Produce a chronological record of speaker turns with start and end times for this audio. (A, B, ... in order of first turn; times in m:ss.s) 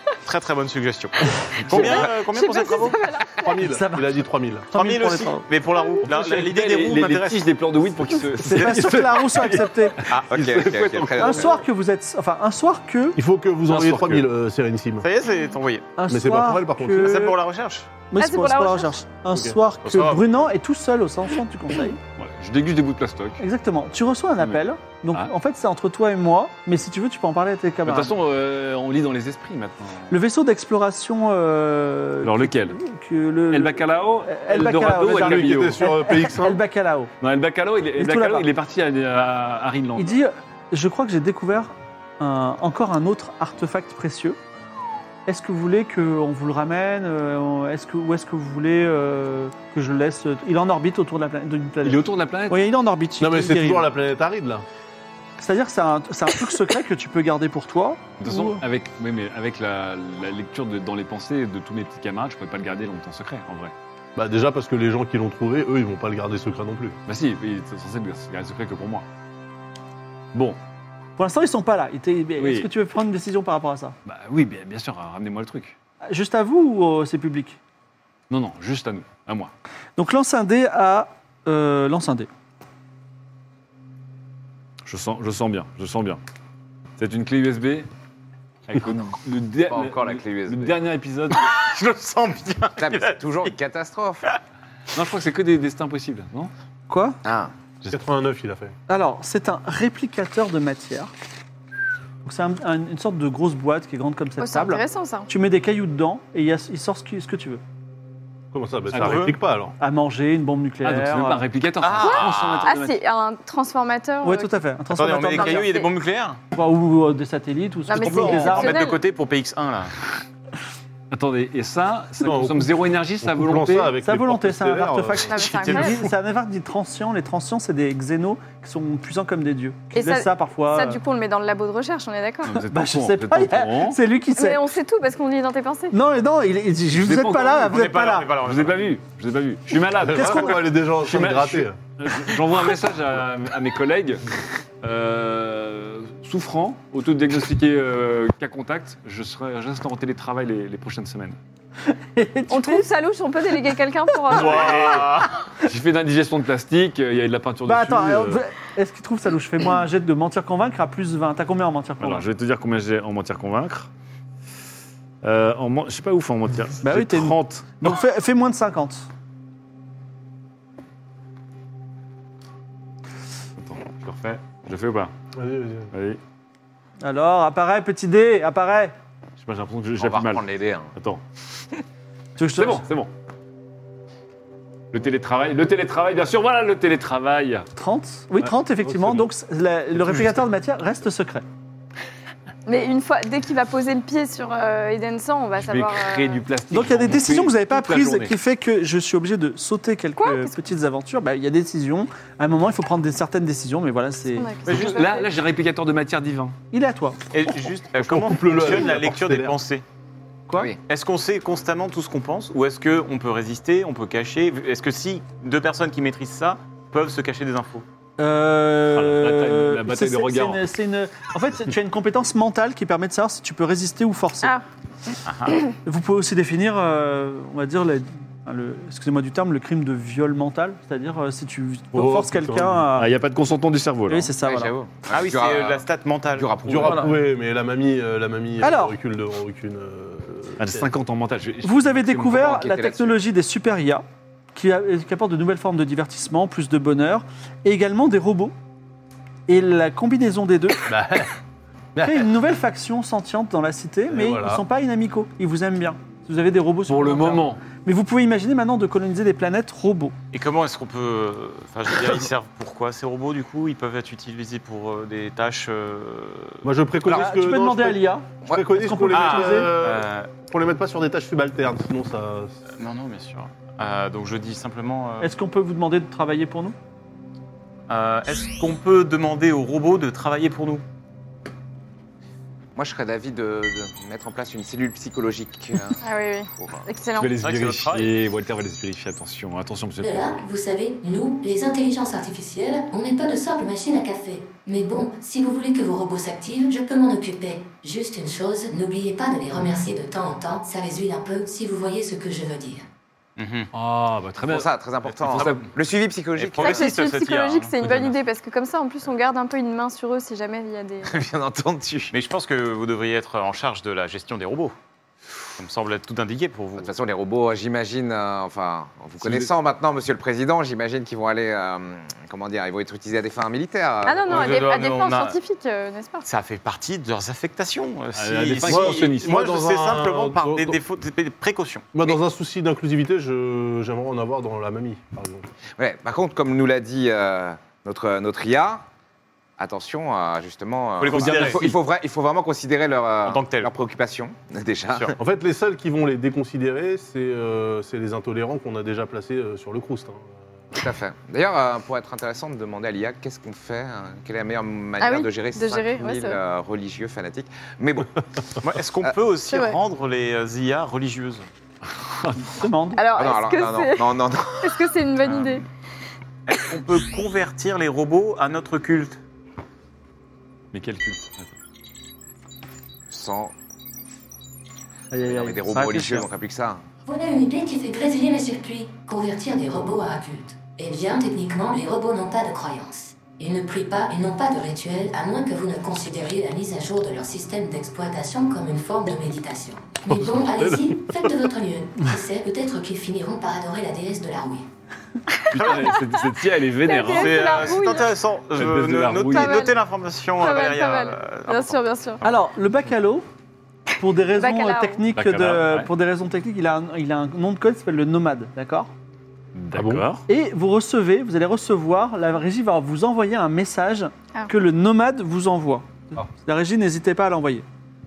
0:00.2-0:03.0 A
0:01.7-0:02.0 B
0:01.7-0:02.0 C
0:01.7-0:03.7 D
0:03.4-0:04.7 E
0:03.7-0:04.2 B
0:04.7-0:05.5 B
0:04.7-0:10.8 A
0:06.1-0:09.3 C
0:08.4-0:10.1 B
0:10.1-0:11.2 C
0:10.3-0:11.5 F
0:11.2-0:13.2 B
0:13.2-0:15.1 E
0:13.7-0:14.2 A
0:15.0-0:16.0 A
0:16.0-0:17.4 B
0:16.0-0:17.0 E
0:16.9-0:17.9 A
0:18.1-0:22.0 B
0:18.2-0:18.9 D
0:19.8-0:20.4 A
0:22.2-0:23.4 C
0:23.4-0:28.2 B
0:27.8-0:30.2 C
0:30.1-0:37.1 B
0:32.2-0:32.8 C
0:33.5-0:35.9 C
0:34.7-0:36.6 E
0:37.2-0:40.2 C
0:38.0-0:38.5 B
0:40.0-0:44.4 B
0:45.3-0:53.8 B
0:51.8-0:52.7 C
0:53.2-0:54.6 E
0:55.4-0:58.6 B
0:58.2-1:03.7 C
1:04.2-1:07.0 E
1:07.1-1:09.0 C
1:11.2-1:14.0 B
1:12.4-1:12.7 C
1:14.1-1:15.8 C
1:16.1-1:17.6 B
1:18.3-1:19.5 C
1:20.0-1:22.3 B
1:24.9-1:26.2 C
1:27.0-1:27.9 C
1:28.7-1:31.4 C
1:29.7-1:30.8 F
1:31.3-1:33.5 A
1:32.8-1:34.2 F
1:34.9-1:36.5 C
1:36.9-1:37.2 B
1:37.2-1:37.5 F
1:37.9-1:38.7 E
1:38.9-1:41.1 B
1:42.2-1:47.6 B
1:44.4-1:45.3 D
1:48.5-1:49.8 E
1:48.9-1:49.3 C
1:49.0-1:49.3 A
1:49.8-1:51.4 B
1:50.8-1:53.0 C
1:51.8-1:52.7 A
1:52.0-1:54.5 D
1:54.2-1:55.7 B
1:54.9-1:56.4 A
1:55.4-1:55.9 D
1:56.5-1:58.9 B
1:57.9-1:59.0 D
1:58.0-1:59.9 A
2:01.1-2:03.9 C
2:02.2-2:05.2 E
2:04.0-2:11.0 B
2:05.3-2:06.0 D
2:05.3-2:06.0 A
2:09.9-2:12.6 D
2:12.4-2:14.0 C
2:12.6-2:14.7 B
2:14.4-2:16.0 D
2:15.9-2:18.4 B
2:16.9-2:24.2 C
2:17.6-2:18.9 A
2:19.9-2:21.8 E
2:20.1-2:20.6 B
2:24.8-2:31.4 C
2:31.9-2:32.9 B
2:32.5-2:35.1 D
2:34.3-2:35.4 A
2:35.6-2:38.4 C
2:37.7-2:42.3 B
2:42.0-2:43.9 C
2:45.2-2:47.9 C
2:46.8-2:49.1 B
2:53.6-2:55.1 C
2:55.4-2:55.9 E
2:55.9-2:56.2 C
2:57.0-2:58.9 B
2:59.4-3:00.4 C
3:00.0-3:00.9 F
3:00.9-3:01.2 C
3:02.4-3:02.9 B
3:02.5-3:03.1 C
3:04.9-3:07.7 C
3:07.8-3:11.4 B
3:08.8-3:09.2 E
3:12.7-3:16.4 D
3:15.6-3:18.4 C
3:16.7-3:24.5 B
3:20.2-3:20.6 D
3:24.4-3:25.2 D
3:24.6-3:26.6 C
3:24.7-3:25.1 A
3:26.7-3:27.6 B
3:27.3-3:29.8 A
3:28.0-3:29.6 E
3:30.5-3:30.8 F
3:30.8-3:37.8 A
3:38.2-3:44.6 B
3:39.0-3:40.7 C
3:45.3-3:45.6 A
3:45.8-3:53.1 B
3:51.9-3:52.8 E
3:53.0-3:54.3 C
3:54.1-3:54.7 B
3:54.4-3:57.2 F
3:55.1-3:57.2 A
3:56.7-4:00.9 E
3:58.6-3:59.0 B
4:00.6-4:02.3 C
4:01.6-4:08.5 B
4:02.2-4:03.2 F
4:09.5-4:10.9 B
4:10.9-4:11.3 E
4:12.0-4:12.3 E
4:12.0-4:20.2 B
4:14.1-4:14.6 E
4:16.9-4:17.6 C
4:20.3-4:27.3 A
4:26.6-4:32.6 E
4:27.0-4:29.7 B
4:29.0-4:30.4 A
4:32.7-4:35.3 A
4:35.2-4:36.8 B
4:37.9-4:40.8 A
4:42.8-4:46.0 F
4:46.0-4:47.4 D
4:47.2-4:50.3 C
4:47.4-4:48.2 A
4:50.0-5:02.8 G
5:03.4-5:03.7 A
5:03.7-5:04.7 C
5:04.4-5:06.9 F
5:05.2-5:05.6 C
5:05.3-5:05.6 A
5:06.3-5:08.1 A
5:06.6-5:11.2 D
5:11.0-5:12.1 F
5:12.1-5:14.8 A
5:15.6-5:16.9 A
5:16.8-5:24.6 F
5:24.0-5:26.3 D
5:24.3-5:25.4 A
5:26.2-5:32.2 A
5:28.2-5:29.4 C
5:28.6-5:30.8 E
5:31.9-5:35.5 E
5:35.8-5:38.8 F
5:39.6-5:45.2 F
5:41.0-5:41.7 A
5:41.1-5:41.8 C
5:43.2-5:43.7 A
5:45.2-5:50.3 E
5:50.8-5:58.1 F
5:55.0-5:56.4 D
5:58.6-6:01.5 A
5:59.5-5:59.8 D
6:01.9-6:02.6 C
6:02.5-6:03.0 B
6:03.0-6:05.6 D
6:03.2-6:04.8 F
6:05.2-6:05.6 A
6:06.5-6:09.2 A
6:10.7-6:11.5 C
6:13.1-6:13.5 F
6:15.1-6:16.3 B
6:15.2-6:16.8 F
6:17.1-6:34.7 G
6:30.1-6:31.2 E
6:35.5-6:37.7 C
6:35.5-6:35.9 A
6:35.6-6:36.2 D
6:36.8-6:38.1 D
6:37.0-6:41.8 A
6:38.5-6:39.7 C
6:39.2-6:39.8 D
6:40.4-6:42.2 D
6:42.2-6:43.2 B
6:44.0-6:48.9 B
6:44.4-6:45.0 D
6:45.2-6:45.9 C
6:49.6-6:50.2 C
6:49.7-6:50.1 E
6:50.3-6:57.6 B